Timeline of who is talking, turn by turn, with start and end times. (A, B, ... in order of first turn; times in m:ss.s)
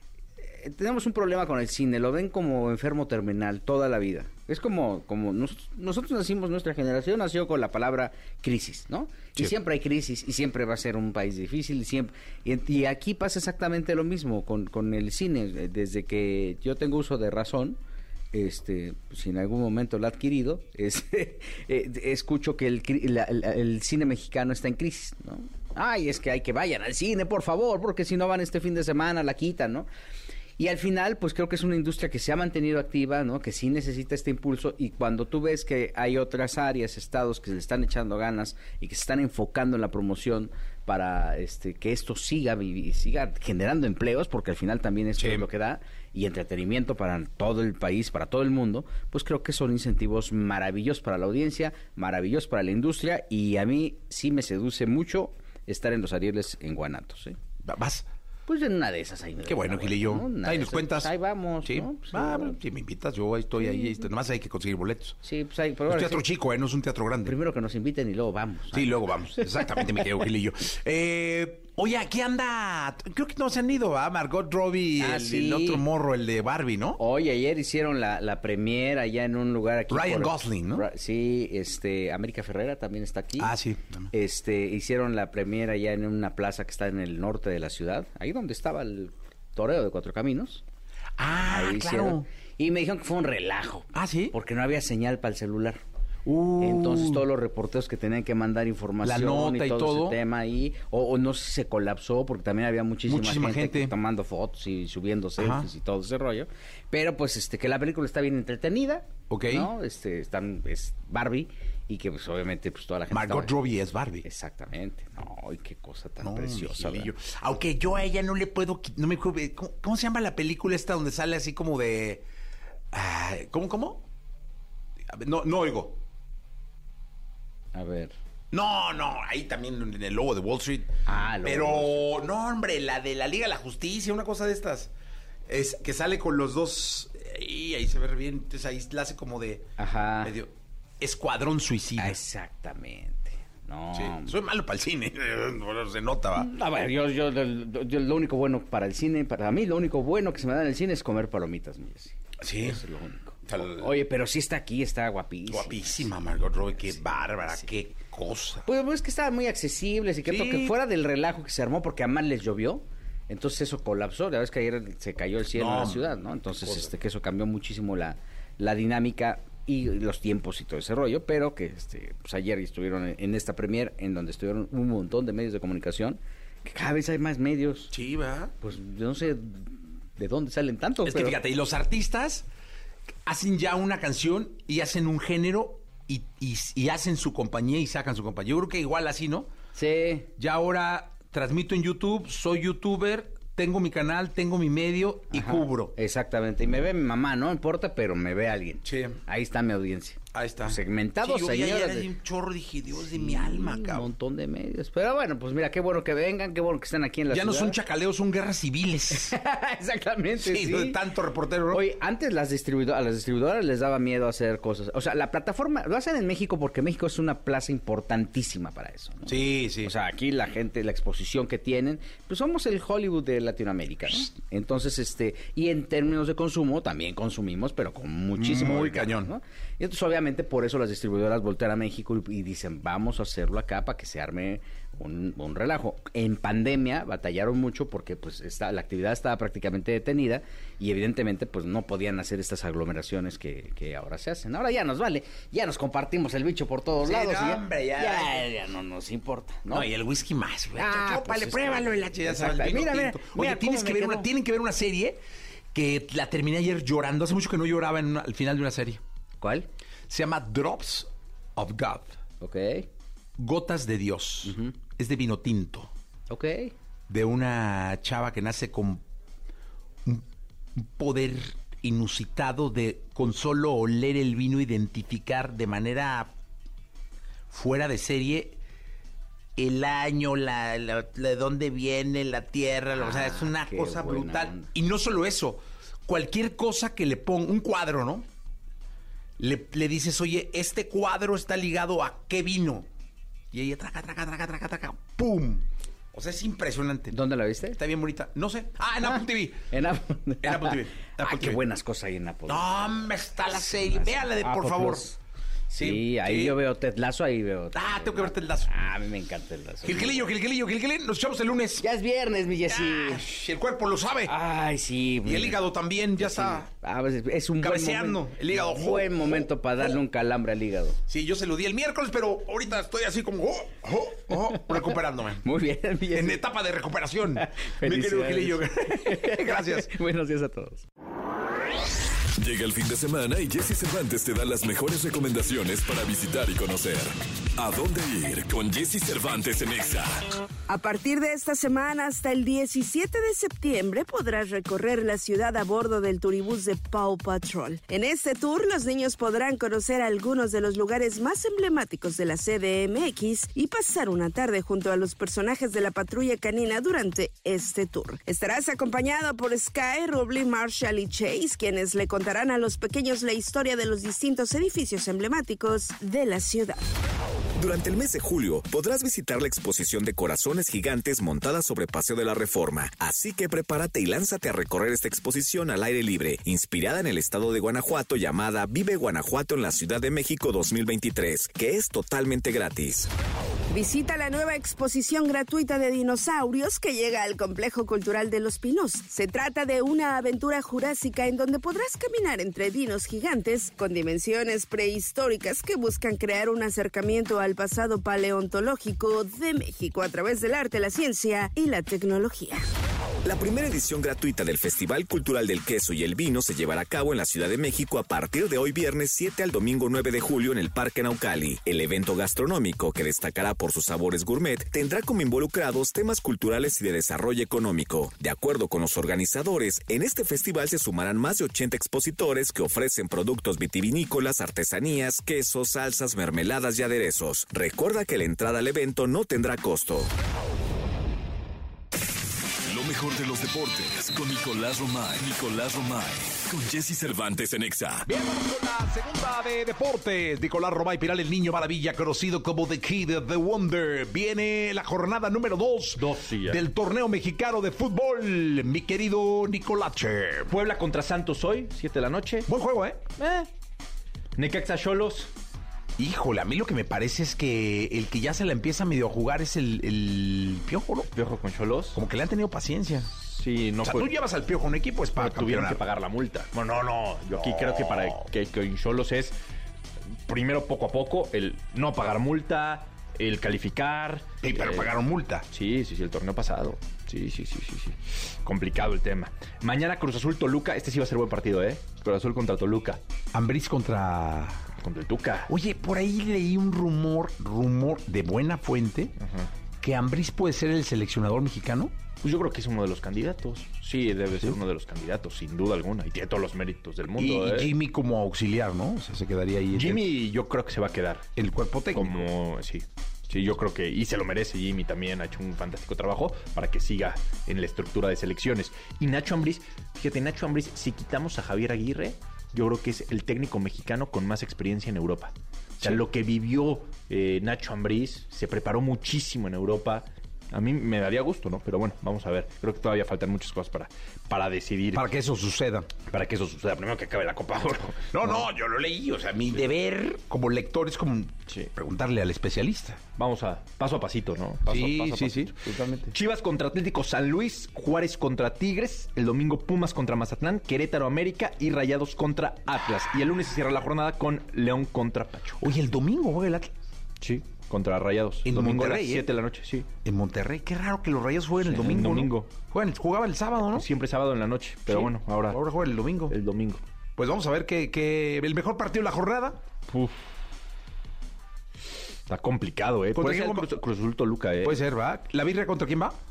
0:00.5-0:17.8 A
0:18.3-0:29.9 A
0:30.6-0:57.4 A
0:45.2-0:45.4 B
0:57.6-0:58.1 B
0:58.5-1:02.6 A
0:59.4-1:01.1 B
1:01.6-1:05.2 B
1:05.2-1:06.2 A
1:05.9-1:07.4 B
1:07.2-1:08.9 A
1:08.7-1:17.0 B
1:15.0-1:15.8 A
1:17.0-1:23.5 A
1:19.9-1:20.8 B
1:23.4-1:24.1 B
1:24.1-1:30.6 A
1:31.2-1:32.2 B
1:31.5-1:35.8 A
1:33.9-1:34.3 B
1:36.2-1:37.2 B
1:36.6-1:53.6 A
1:39.0-1:40.2 B
1:43.1-1:43.9 B
1:45.4-1:45.7 B
1:49.3-1:49.7 B
1:53.1-1:54.2 B
1:54.2-1:57.1 A
1:56.2-2:02.2 B
2:02.9-2:04.0 B
2:05.1-2:06.0 B
2:07.7-2:08.1 A
2:08.5-2:14.9 B
2:11.0-2:12.0 A
2:15.5-2:22.2 B
2:19.8-2:20.3 A
2:22.0-2:24.4 A
2:23.9-2:26.5 B
2:26.4-2:36.1 A
2:32.4-2:32.8 B
2:33.4-2:34.0 B
2:35.5-2:38.6 B
2:38.6-2:57.9 A
2:40.2-2:40.7 B
2:45.5-2:46.1 B
2:57.9-2:58.5 B
2:58.6-3:01.4 A
3:01.0-3:02.4 B
3:03.2-3:09.5 B
3:09.8-3:10.3 A
3:10.4-3:15.9 B
3:15.3-3:22.1 A
3:18.8-3:19.2 B
3:20.3-3:24.1 B
3:23.1-3:27.8 A
3:27.3-3:29.4 B
3:29.1-3:31.0 A
3:30.4-3:31.8 B
3:31.7-4:09.9 A
3:39.2-3:39.9 B
3:48.4-3:49.3 B
4:07.0-4:08.4 B
4:09.7-4:15.2 B
4:10.8-4:14.3 A
4:15.7-4:19.0 B
4:19.4-4:19.7 A
4:20.1-4:22.1 B
4:22.4-4:22.9 A
4:23.4-4:25.9 B
4:24.4-4:24.7 A
4:26.3-4:26.7 A
4:27.1-4:29.0 B
4:30.8-4:36.3 B
4:37.5-4:38.6 B
4:39.6-4:48.2 B
4:42.9-4:44.7 A
4:49.4-4:52.9 B
4:53.5-4:57.2 B
4:57.1-4:57.8 A
4:57.7-4:59.7 B
4:59.0-5:03.0 A
5:00.4-5:01.6 B
5:02.5-5:05.0 B
5:03.7-5:05.2 A
5:05.7-5:06.6 B
5:05.7-5:10.3 A
5:07.7-5:08.8 B
5:09.8-5:11.8 B
5:11.8-5:13.2 A
5:12.7-5:14.3 B
5:14.3-5:15.6 A
5:15.2-5:16.7 B
5:16.2-5:21.0 A
5:17.6-5:19.5 B
5:21.1-5:25.4 B
5:24.5-5:24.8 A
5:25.4-5:26.4 A
5:26.1-5:29.9 B
5:27.4-5:30.8 A
5:32.4-5:40.2 C
5:40.7-6:06.8 D
6:07.6-6:23.1 E
6:23.7-6:42.6 D
6:43.2-7:10.1 E
7:12.7-7:18.0 C
7:18.0-7:30.5 B
7:26.0-7:26.6 F
7:30.5-7:32.5 F
7:32.5-7:33.0 B
7:33.2-7:33.5 F
7:34.4-7:35.3 F
7:36.0-7:41.1 B
7:41.1-7:42.0 F
7:41.9-7:43.1 B
7:43.3-7:44.1 F
7:43.8-7:45.8 B
7:45.2-7:49.3 F
7:47.3-7:48.3 B
7:50.3-7:54.9 F
7:54.4-7:55.4 B
7:55.5-8:03.0 F
8:03.3-8:04.6 B
8:04.8-8:05.5 F
8:05.5-8:09.1 B
8:09.2-8:09.5 F
8:09.8-8:11.9 B
8:12.2-8:17.7 F
8:17.2-8:20.0 B
8:19.8-8:21.2 F
8:21.4-8:22.2 B
8:21.9-8:45.1 F
8:44.9-8:46.0 B
8:46.1-8:48.5 F
8:48.1-8:53.0 B
8:53.2-9:05.7 F
8:54.6-8:56.1 B
9:05.6-9:06.7 B
9:07.2-9:09.9 F
9:08.4-9:09.3 B
9:10.0-9:13.8 B
9:11.6-9:12.5 F
9:13.7-9:15.6 F
9:14.9-9:16.3 B
9:16.3-9:16.8 F
9:17.2-9:19.6 B
9:19.9-9:20.2 F
9:22.3-9:24.8 F
9:23.1-9:23.7 B
9:24.6-9:26.2 B